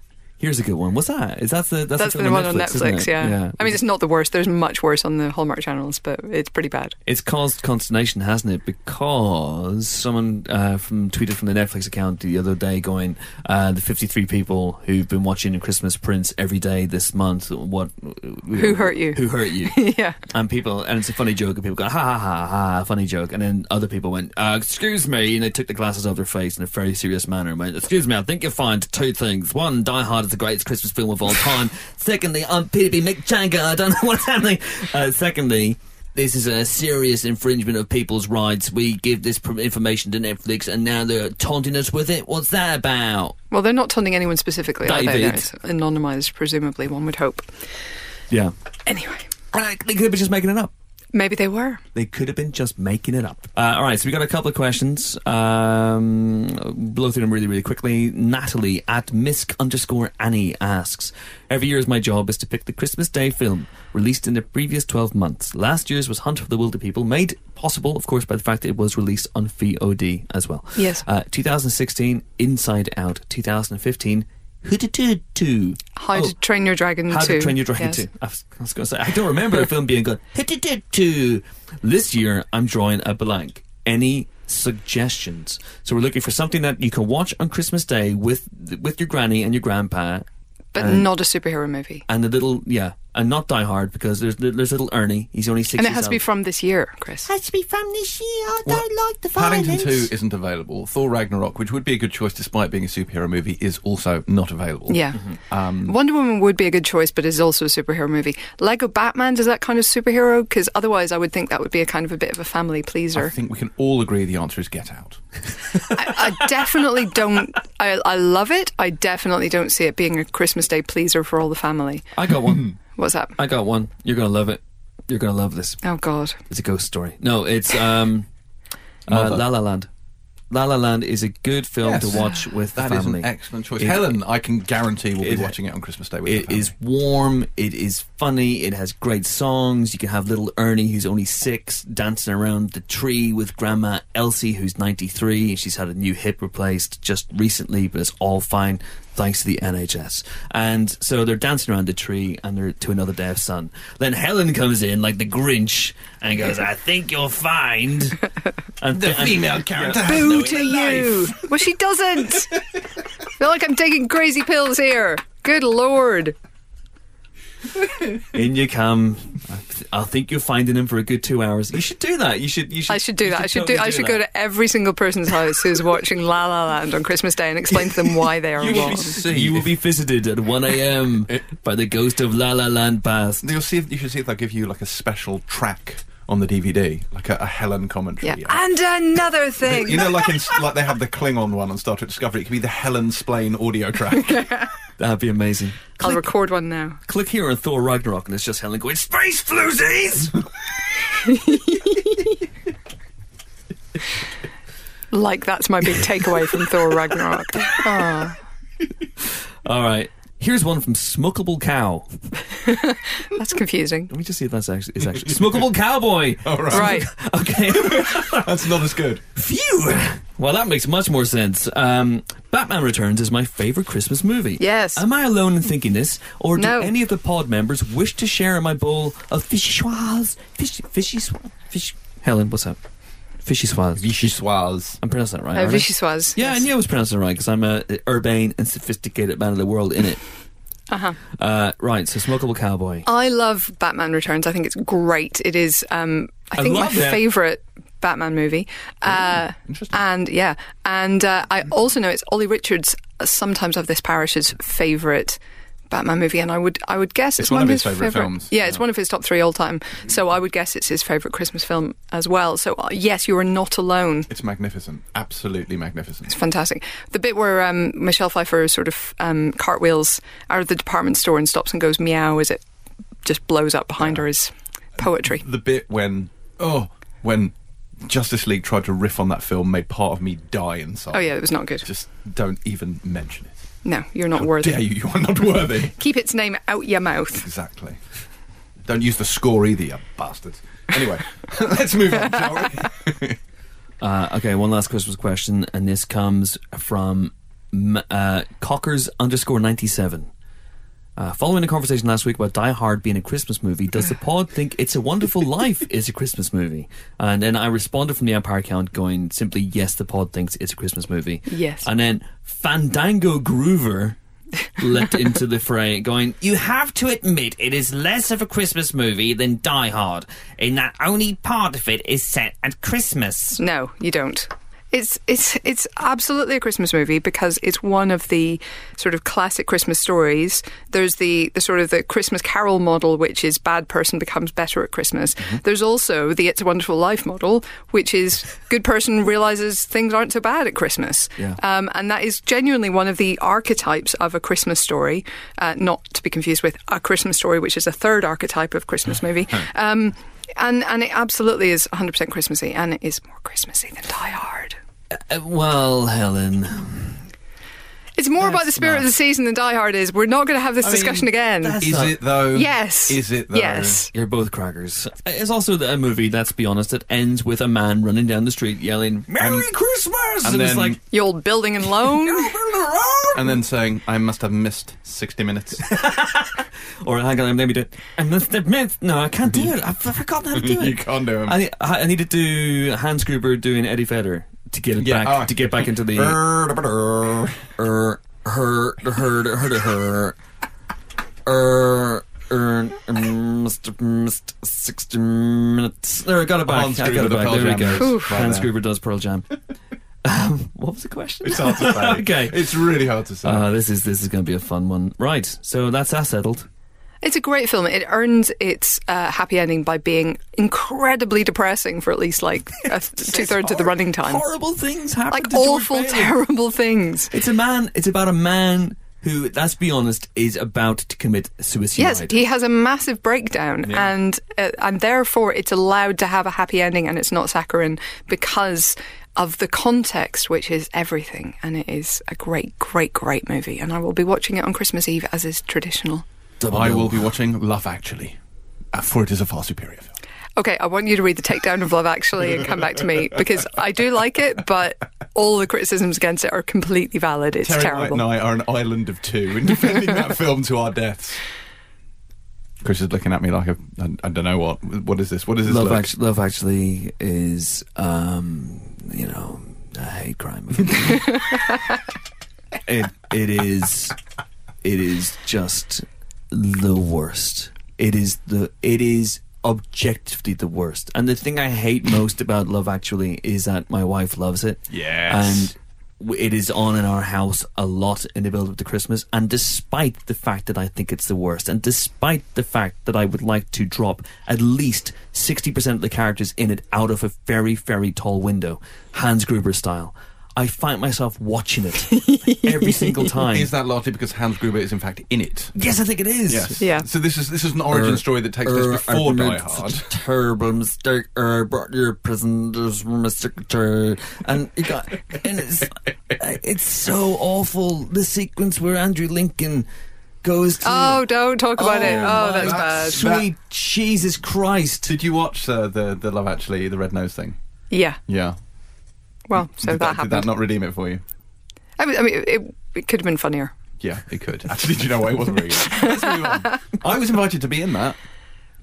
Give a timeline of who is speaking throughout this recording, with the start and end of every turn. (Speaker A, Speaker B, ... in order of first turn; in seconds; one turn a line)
Speaker A: 0.4-3.8
Speaker B: 2.0-6.9
Speaker A: 7.0-43.4
Speaker B: 18.6-20.2
Speaker B: 43.5-47.5
Speaker A: 44.8-45.5
Speaker B: 48.9-49.3
Speaker A: 49.5-50.7
Speaker B: 51.1-51.8
Speaker A: 51.9-76.3
Speaker B: 70.8-71.0
Speaker B: 76.0-78.0
Speaker A: 77.1-91.1
Speaker B: 90.7-92.0
Speaker A: 92.1-96.2
Speaker B: 95.8-97.3
Speaker C: 97.3-100.1
Speaker D: 98.6-106.0
Speaker B: 104.9-105.2
Speaker B: 105.8-113.3
Speaker D: 113.1-115.2
Speaker B: 115.9-122.1
Speaker A: 122.1-122.8
Speaker B: 122.9-123.3
Speaker A: 123.4-125.8
Speaker B: 125.8-126.4
Speaker A: 126.5-128.3
Speaker D: 129.1-129.5
Speaker A: 129.1-129.9
Speaker A: 130.5-134.2
Speaker D: 131.8-136.7
Speaker A: 135.2-135.5
Speaker A: 136.2-158.2
Speaker A: 158.8-160.6
Speaker D: 158.9-161.4
Speaker B: 160.0-162.6
Speaker B: 163.4-166.3
Speaker A: 168.3-174.2
Speaker B: 172.9-179.1
Speaker D: 178.6-179.7
Speaker A: 178.6-183.5
Speaker D: 183.4-188.6
Speaker B: 188.2-190.5
Speaker D: 189.6-194.7
Speaker A: 195.0-196.3
Speaker B: 196.0-197.0
Speaker A: 197.1-200.4
Speaker B: 201.2-202.2
Speaker B: 205.1-208.4
Speaker A: 209.6-212.2
Speaker B: 212.7-214.1
Speaker A: 214.1-218.7
Speaker D: 216.4-217.1
Speaker B: 216.7-217.1
Speaker D: 217.7-219.2
Speaker A: 219.3-232.8
Speaker B: 224.6-225.0
Speaker B: 226.6-226.9
Speaker A: 233.4-234.1
Speaker D: 233.9-235.0
Speaker A: 235.0-240.2
Speaker B: 235.5-236.6
Speaker B: 240.9-241.2
Speaker A: 241.3-243.1
Speaker B: 243.1-255.4
Speaker A: 246.6-247.2
Speaker D: 249.7-250.0
Speaker B: 255.9-264.3
Speaker D: 257.4-258.8
Speaker D: 264.3-266.4
Speaker B: 266.3-272.6
Speaker B: 273.2-275.4
Speaker D: 275.0-283.7
Speaker B: 281.1-281.9
Speaker B: 283.8-284.8
Speaker D: 284.4-286.0
Speaker B: 286.0-287.4
Speaker D: 287.3-288.0
Speaker D: 288.9-293.4
Speaker A: 294.0-300.3
Speaker A: 301.2-314.2
Speaker B: 311.5-311.9
Speaker A: 314.8-323.6
Speaker B: 323.6-354.8
Speaker A: 355.2-357.2
Speaker B: 358.2-361.8
Speaker A: 358.4-359.1
Speaker A: 360.8-362.2
Speaker D: 361.8-364.1
Speaker B: 362.5-364.1
Speaker A: 364.1-371.0
Speaker D: 369.4-369.7
Speaker D: 370.4-371.0
Speaker B: 371.1-372.5
Speaker A: 371.9-373.6
Speaker D: 373.3-375.9
Speaker A: 375.8-386.6
Speaker D: 380.5-381.6
Speaker D: 385.0-387.4
Speaker A: 387.7-390.4
Speaker A: 391.4-399.5
Speaker D: 396.6-398.7
Speaker B: 397.9-398.3
Speaker A: 400.2-402.7
Speaker D: 401.4-403.7
Speaker A: 403.4-406.7
Speaker B: 407.2-414.4
Speaker A: 413.2-416.3
Speaker B: 415.3-417.3
Speaker A: 417.3-422.5
Speaker B: 422.0-436.2
Speaker D: 423.8-424.1
Speaker A: 436.6-437.3
Speaker D: 436.7-438.4
Speaker D: 438.9-440.1
Speaker B: 440.6-448.2
Speaker D: 447.6-451.4
Speaker D: 452.8-456.1
Speaker A: 455.6-461.4
Speaker A: 462.8-464.1
Speaker A: 464.8-493.7
Speaker D: 474.9-475.7
Speaker B: 492.2-493.1
Speaker D: 493.4-495.7
Speaker A: 495.7-496.9
Speaker D: 496.5-500.1
Speaker B: 496.8-497.1
Speaker A: 497.9-509.9
Speaker A: 510.4-515.1
Speaker B: 510.8-513.3
Speaker D: 512.0-513.5
Speaker D: 515.0-517.6
Speaker B: 517.9-518.2
Speaker D: 518.3-518.6
Speaker B: 519.5-520.5
Speaker D: 519.5-521.2
Speaker B: 522.0-523.7
Speaker D: 524.0-528.2
Speaker B: 526.0-526.6